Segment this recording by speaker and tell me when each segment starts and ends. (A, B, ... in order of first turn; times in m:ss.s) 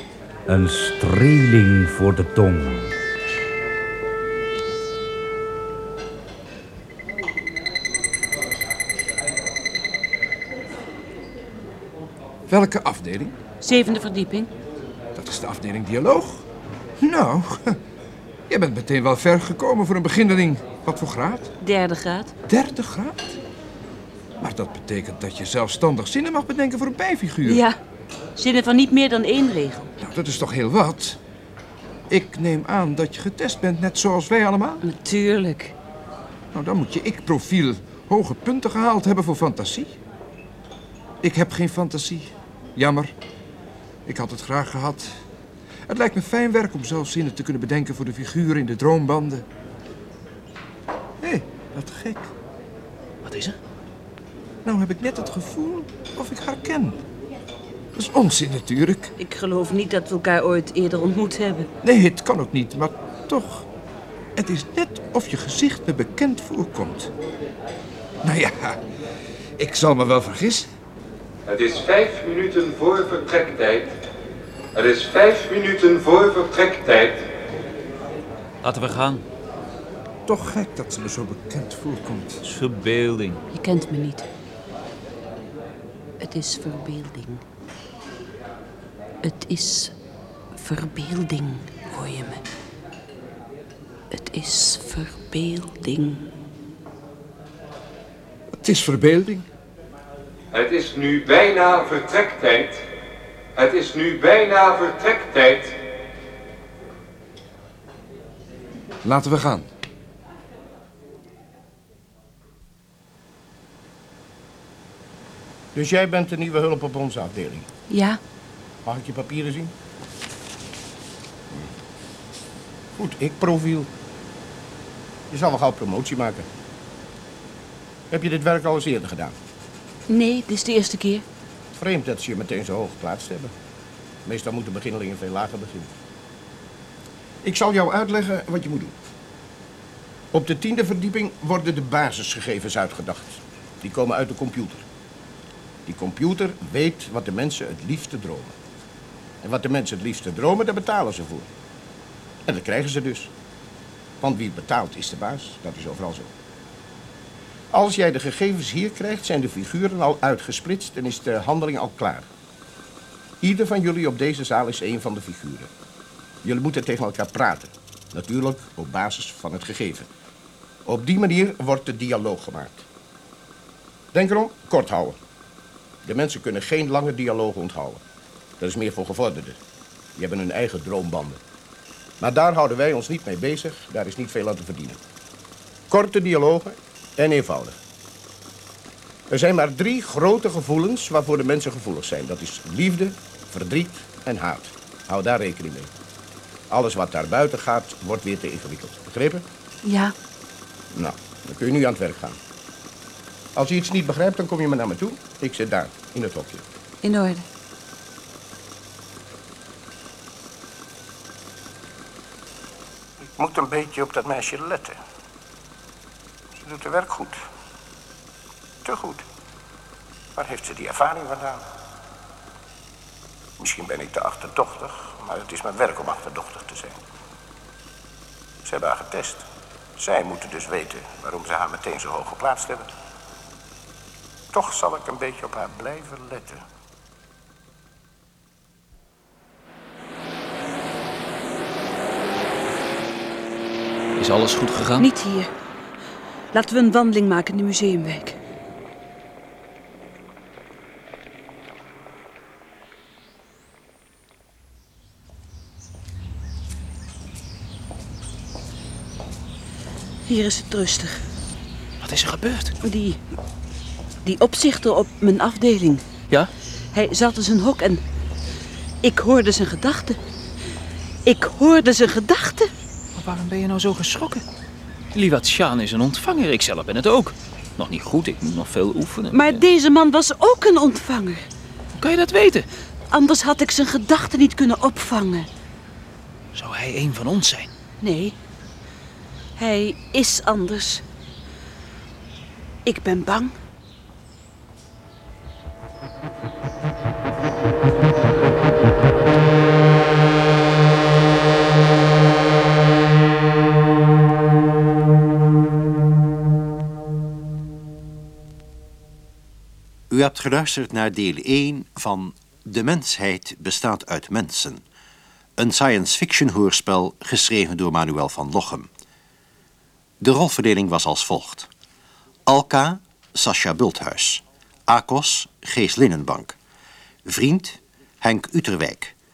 0:00.5-0:03.0 A
0:12.5-0:13.4 B
0:13.6-0:14.5 C
0:15.2-0:16.4 B
0:17.0-0:17.8 B
0:18.5-0:21.5 B
0:21.6-0:22.3 C
0:22.5-0:23.4 B
0:24.4-0:27.6 B
0:27.4-0:27.8 C
0:28.4-0:29.9 C
0:30.0-0:31.2 B
0:32.1-0:34.8 B
0:34.8-0:35.8 C
0:36.5-0:40.0 B
0:41.2-0:43.1 B
0:44.1-0:45.2 B
0:45.9-0:49.4 B
0:51.2-0:52.3 B
0:53.2-0:53.6 D
0:54.6-0:57.0 B
0:58.0-0:59.1 B
0:59.2-1:01.7 C
1:01.8-1:03.6 B
1:04.4-1:07.1 B
1:08.2-1:08.8 B
1:09.6-1:10.7 B
1:11.4-1:13.9 E
1:14.7-1:17.3 E
1:18.6-1:19.2 D
1:20.3-1:22.4 B
1:22.4-1:23.4 D
1:23.5-1:24.3 C
1:26.2-1:27.4 C
1:29.2-1:29.9 C
1:30.6-1:32.4 C
1:34.1-1:36.3 C
1:38.6-1:39.5 B
1:40.5-1:42.8 E
1:43.6-1:45.8 E
1:49.0-1:49.7 B
1:55.7-1:57.7 F
1:57.9-1:58.2 C
1:58.8-1:59.7 F
2:03.0-2:03.9 F
2:05.3-2:06.5 F
2:08.1-2:09.4 F
2:10.1-2:11.2 C
2:11.7-2:13.5 F
2:14.3-2:15.9 F
2:17.4-2:19.0 F
2:20.3-2:24.9 F
2:25.9-2:28.6 F
2:29.4-2:31.5 F
2:32.5-2:33.3 F
2:34.2-2:36.3 F
2:37.7-2:42.3 F
2:43.4-2:45.7 F
2:46.4-2:50.1 F
2:50.9-2:52.9 F
2:54.1-2:55.2 F
2:56.0-2:58.0 F
2:58.6-2:59.6 F
3:00.2-3:01.4 F
3:02.2-3:05.0 F
3:05.9-3:07.8 F
3:09.3-3:15.9 F
3:16.7-3:19.4 F
3:19.8-3:20.1 C
3:20.9-3:22.4 F
3:23.6-3:26.6 F
3:27.0-3:27.4 C
3:33.3-3:35.0 F
3:36.6-3:37.4 F
3:38.8-3:39.2 F
3:40.4-3:41.6 F
3:43.6-3:47.0 F
3:48.6-3:52.9 F
3:54.5-3:56.6 F
4:04.2-4:05.1 D
4:05.0-4:05.5 C
4:06.5-4:08.4 C
4:20.3-4:21.2 C
4:22.0-4:22.8 D
4:22.8-4:23.2 C
4:24.2-4:26.0 C
4:26.9-4:28.0 C
4:29.0-4:30.2 C
4:31.2-4:32.7 C
4:33.2-4:34.4 D
4:35.1-4:39.6 D
4:39.3-4:41.5 C
4:42.0-4:42.7 D
4:43.1-4:45.5 C
4:46.5-4:47.7 D
4:48.0-4:48.4 C
4:49.6-4:51.0 C
4:52.9-4:53.6 C
5:10.1-5:14.8 G
5:15.6-5:18.9 G
5:20.2-5:21.7 G
5:22.5-5:26.6 G
5:27.3-5:29.2 G